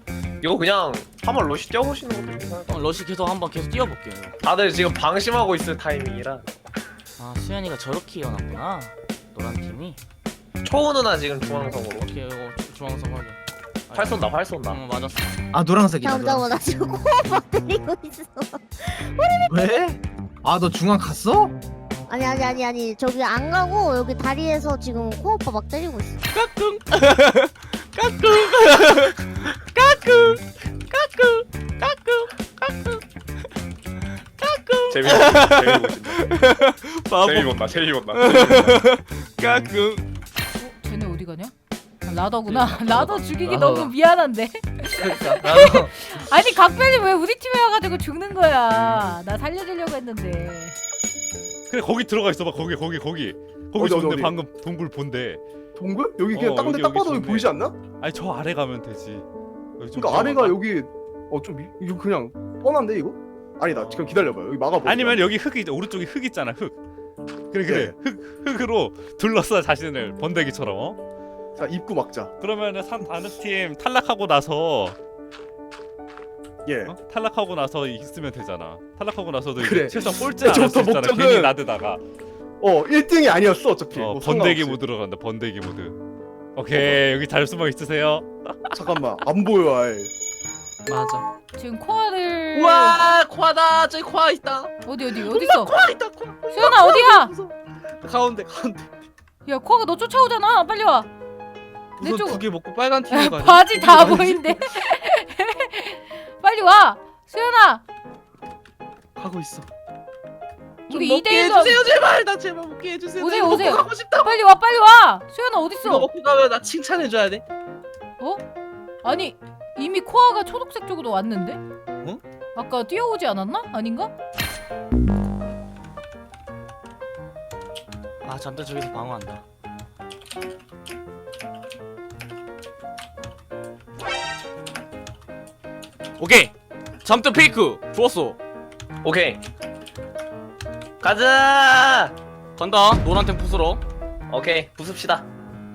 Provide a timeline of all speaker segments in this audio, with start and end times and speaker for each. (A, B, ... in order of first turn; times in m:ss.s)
0:00.4-0:03.0 A
0:02.7-0:04.3 B
0:04.4-0:06.4 A
0:07.2-0:10.0 B
0:10.6-0:12.1 A
0:12.0-0:13.4 B
0:13.9-0:15.2 B
0:13.9-0:14.8 A
0:15.5-0:16.5 C
0:16.0-0:19.5 D
0:19.5-0:21.6 C
0:22.1-0:26.2 D
0:26.3-0:33.0 B
0:34.4-0:37.5 B
0:34.9-0:36.3 A
0:37.2-0:38.8 A
0:38.1-0:40.0 B
0:40.6-0:41.5 E
0:42.0-0:50.8 E
0:42.5-0:43.9 F
0:45.0-0:45.9 F
0:51.7-0:55.4 G
0:53.8-0:54.4 H
0:55.8-0:57.8 H
0:56.3-0:59.2 G
0:59.8-1:00.6 G
1:00.0-1:05.3 H
1:03.7-1:04.3 G
1:04.8-1:06.8 G
1:07.5-1:11.0 G
1:07.7-1:08.0 H
1:11.6-1:12.3 H
1:12.4-1:15.0 G
1:16.7-1:16.9 H
1:16.9-1:22.0 G
1:19.6-1:21.6 H
1:22.6-1:24.8 H
1:24.0-1:26.0 G
1:26.6-1:28.7 G
1:26.7-1:27.0 H
1:28.7-1:30.1 H
1:30.9-1:31.2 F
1:31.6-1:33.0 E
1:32.5-1:38.9 F
1:34.9-1:35.7 E
1:36.5-1:37.3 E
1:39.5-1:41.1 E
1:42.0-1:44.6 F
1:42.0-1:42.4 E
1:43.1-1:47.8 E
1:49.2-1:49.7 F
1:50.9-1:51.8 E
1:50.9-1:54.4 F
1:53.2-1:56.1 E
1:55.8-1:57.4 F
1:59.0-2:01.6 E
2:02.6-2:04.1 E
2:08.2-2:09.4 B
2:16.2-2:16.5 B
2:17.0-2:18.4 B
2:19.0-2:19.4 A
2:21.0-2:22.1 A
2:22.6-2:23.8 B
2:24.3-2:25.3 A